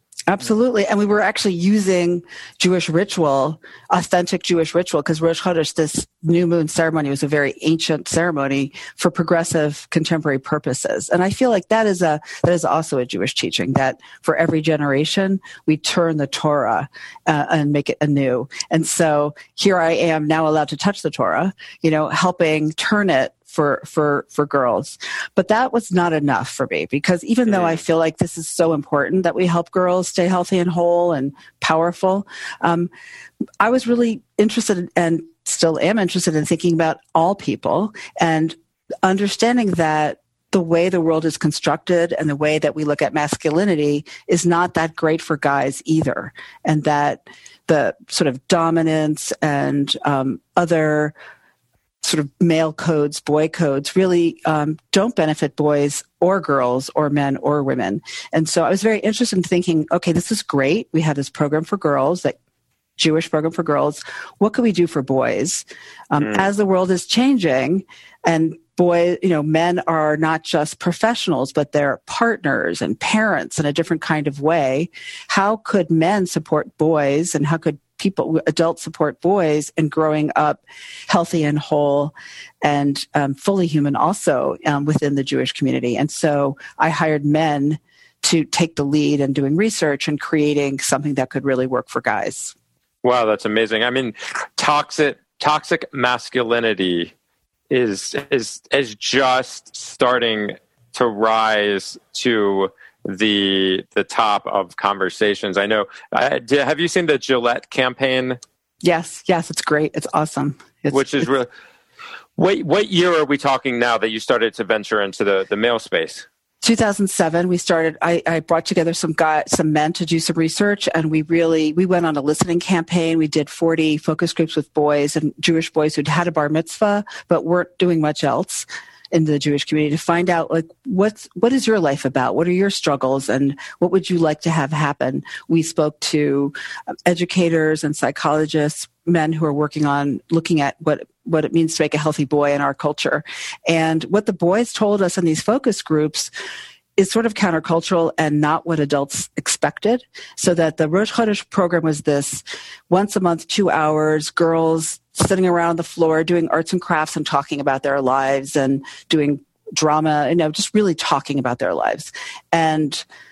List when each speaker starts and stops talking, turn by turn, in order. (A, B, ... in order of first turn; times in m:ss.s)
0:00.3-0:32.9 A
0:27.5-0:27.8 B
0:33.6-0:51.1 A
0:52.0-1:02.4 A
1:03.0-1:32.5 A
1:06.2-1:06.5 B
1:33.0-1:37.1 B
1:37.7-1:48.4 B
1:48.8-1:51.3 A
1:50.9-1:51.5 B
1:52.4-1:56.3 B
1:56.6-2:16.5 A
2:17.1-2:26.3 A
2:27.0-2:43.0 A